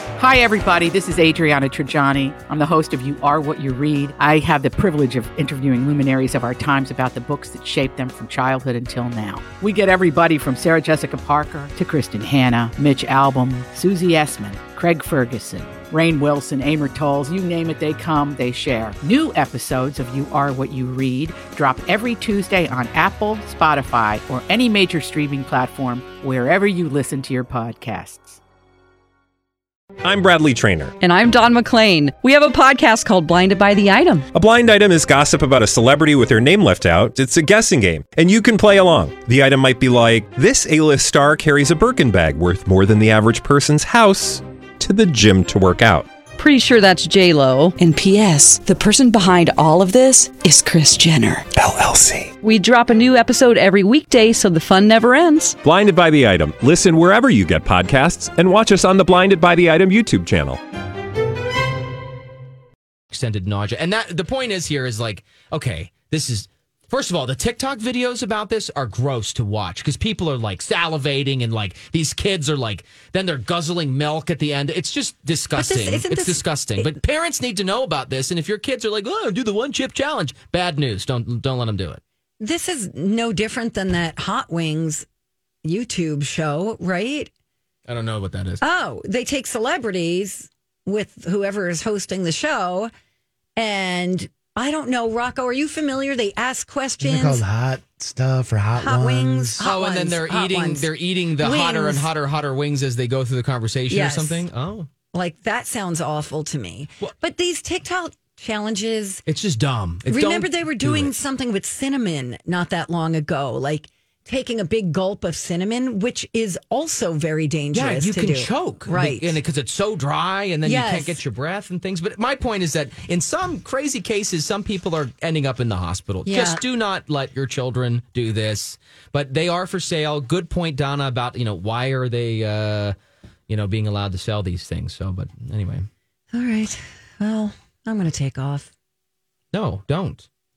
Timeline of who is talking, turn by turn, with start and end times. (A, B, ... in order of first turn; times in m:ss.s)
0:00.2-0:28.4 A
0:30.0-0:30.9 B
0:31.0-0:34.3 C
0:34.3-0:46.1 B
0:46.4-0:51.5 C
0:51.6-0:52.3 B
0:52.4-0:55.6 C
0:55.6-1:00.6 B
1:03.1-1:22.0 D
1:15.5-1:16.9 E
1:22.4-1:25.0 E
1:25.6-1:27.3 E
1:27.9-1:28.6 D
1:28.6-1:32.9 E
1:33.6-1:37.4 E
1:37.0-1:39.6 F
1:38.8-1:40.9 E
1:39.6-1:44.9 D
1:41.4-1:42.1 E
1:43.9-1:44.4 E
1:45.1-1:49.2 E
1:49.2-1:51.1 D
1:50.1-1:59.4 E
1:57.7-2:12.9 D
2:00.6-2:01.2 E
2:06.2-2:06.6 E
2:13.5-2:15.9 D
2:16.3-2:18.7 E
2:19.5-2:20.2 D